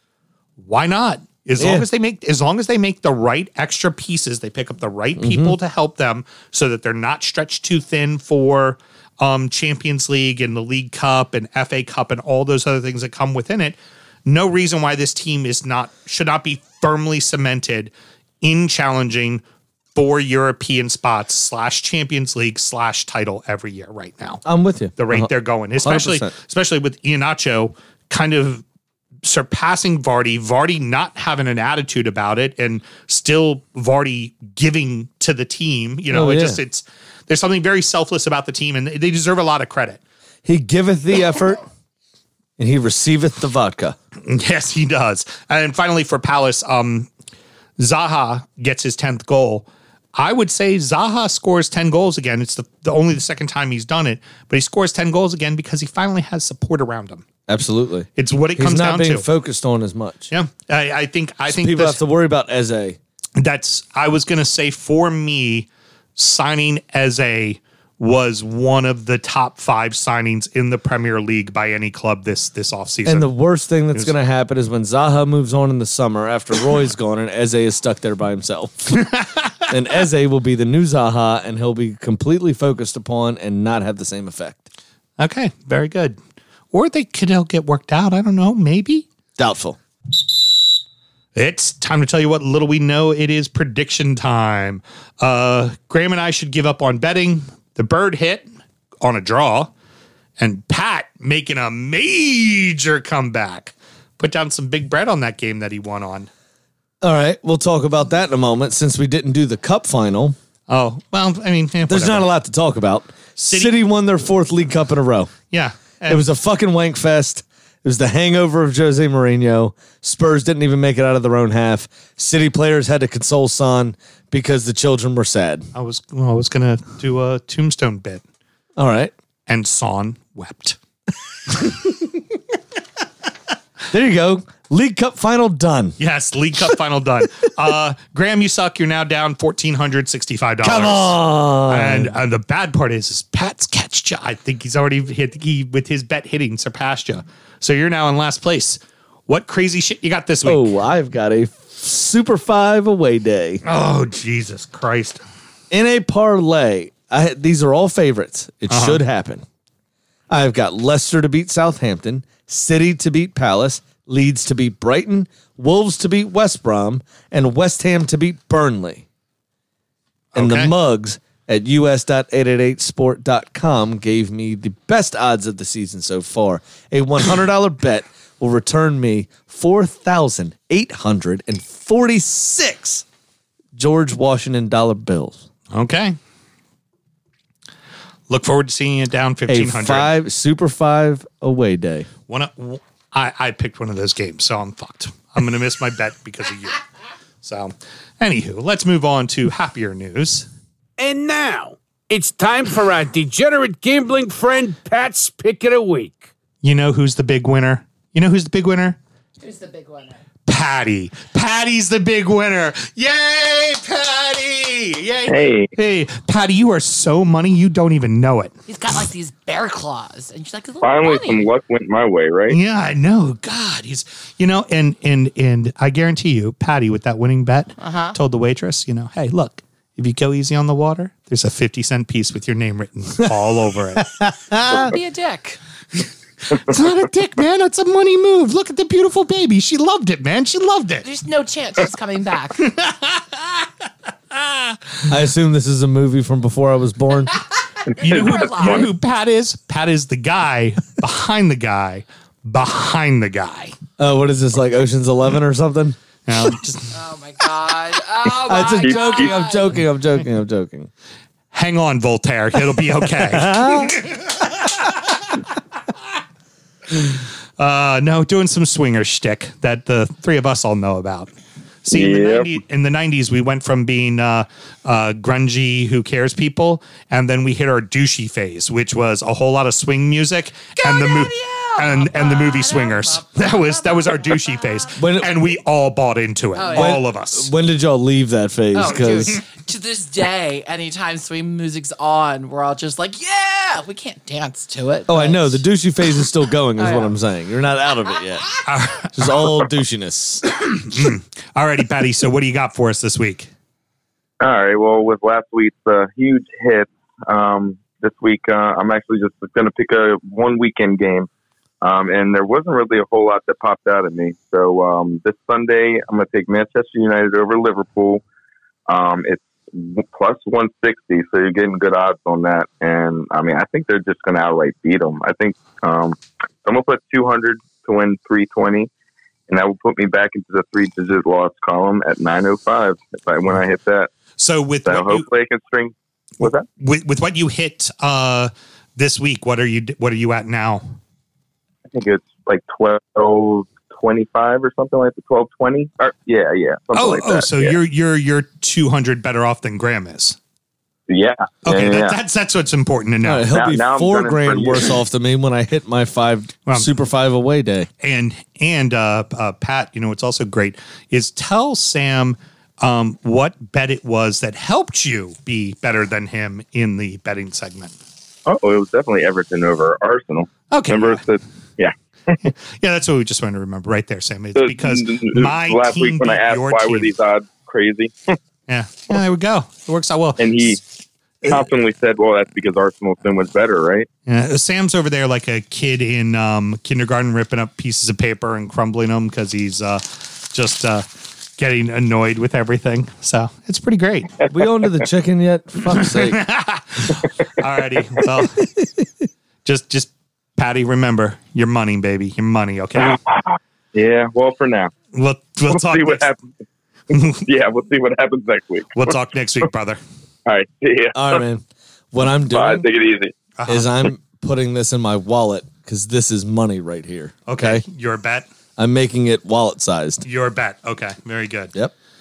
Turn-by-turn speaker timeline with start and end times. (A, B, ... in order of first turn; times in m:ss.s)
0:00.6-0:19.4 A
0:01.6-0:01.8 B
0:05.2-0:05.6 B
0:19.9-0:24.4 A
0:24.4-0:26.3 B
0:25.0-0:28.6 A
0:29.2-0:40.0 A
0:36.1-0:36.6 B
0:40.4-0:41.6 B
0:42.6-0:44.0 B
0:44.2-0:47.1 A
0:47.8-0:57.2 A
0:57.5-1:00.3 B
0:58.2-0:59.2 A
1:00.3-1:02.0 A
1:01.5-1:03.0 B
1:03.4-1:13.3 A
1:13.0-1:19.0 B
1:19.0-1:19.2 A
1:19.7-1:24.7 B
1:25.2-1:26.2 A
1:26.7-1:29.0 A
1:29.4-1:29.8 B
1:31.3-1:38.5 A
1:39.0-1:39.7 A
1:40.4-1:46.3 A
1:47.0-1:50.4 B
1:50.7-1:52.3 A
1:51.9-1:55.3 B
1:53.4-1:53.7 A
1:55.5-1:56.2 A
1:56.1-2:05.7 B
2:05.7-2:08.2 A
2:08.8-2:09.1 B
2:09.5-2:10.8 A
2:13.9-2:16.0 B
2:16.0-2:30.7 A
2:20.6-2:22.2 B
2:30.4-2:33.6 B
2:33.6-2:35.2 A
2:35.7-2:39.4 B
2:38.7-2:39.0 A
2:40.3-2:49.0 B
2:50.3-2:50.7 A
2:50.4-3:03.0 B
3:03.7-3:05.4 B
3:05.7-3:06.2 A
3:08.3-3:10.1 A
3:09.5-3:12.1 B
3:12.3-3:16.8 A
3:17.4-3:20.5 A
3:21.0-3:26.3 C
3:26.6-3:29.0 A
3:29.4-3:30.2 D
3:30.5-3:38.5 A
3:35.3-3:35.7 E
3:38.7-3:41.5 D
3:40.8-3:42.6 E
3:42.5-3:54.1 A
3:47.8-3:48.2 D
3:54.0-3:54.9 B
3:54.7-3:55.6 D
3:56.5-4:01.0 A
4:01.0-4:02.7 D
4:02.6-4:03.6 A
4:04.3-4:04.8 A
4:05.1-4:07.4 B
4:07.9-4:08.8 E
4:07.9-4:08.9 D
4:08.0-4:13.8 A
4:14.0-4:16.0 B
4:16.3-4:17.0 A
4:16.9-4:19.8 D
4:18.4-4:20.9 B
4:18.9-4:19.2 E
4:21.5-4:25.4 A
4:23.2-4:24.0 B
4:26.9-4:31.3 A
4:31.8-4:47.5 A
4:31.9-4:32.5 E
4:40.8-4:44.9 D
4:45.0-4:45.3 B
4:46.6-4:47.0 D
4:46.7-4:49.4 B
4:48.7-4:55.6 D
4:55.1-4:58.5 B
4:56.8-4:57.1 D
4:58.6-4:59.5 A
4:59.1-5:00.5 B
5:00.6-5:03.5 A
5:04.4-5:11.3 E
5:11.8-5:18.2 E
5:18.9-5:28.9 E
5:29.5-5:34.1 E
5:34.4-5:35.2 A
5:34.8-5:36.6 E
5:36.4-5:40.9 A
5:41.9-5:47.7 E
5:46.9-5:50.4 A
5:51.1-5:52.2 E
5:51.6-5:53.5 A
5:53.2-5:57.9 B
5:53.5-5:55.0 E
5:58.0-6:07.9 A
6:08.4-6:12.4 E
6:10.7-6:11.2 A
6:12.4-6:17.1 A
6:14.6-6:18.4 E
6:18.7-6:20.7 A
6:20.4-6:20.8 E
6:21.4-6:24.1 E
6:24.3-6:34.3 A
6:34.5-6:36.4 B
6:35.9-6:38.7 A
6:39.6-6:43.2 A
6:43.0-6:43.4 E
6:43.9-6:44.9 E
6:45.1-6:46.3 A
6:45.7-6:46.4 E
6:47.1-6:47.4 A
6:47.1-6:49.1 E
6:48.9-6:50.0 A
6:50.4-6:51.4 E
6:51.1-6:52.8 B
6:52.5-6:53.4 E
6:53.6-6:53.9 A
6:53.6-6:57.8 B
6:57.5-6:58.5 A
6:58.8-7:00.2 B
7:00.2-7:01.7 A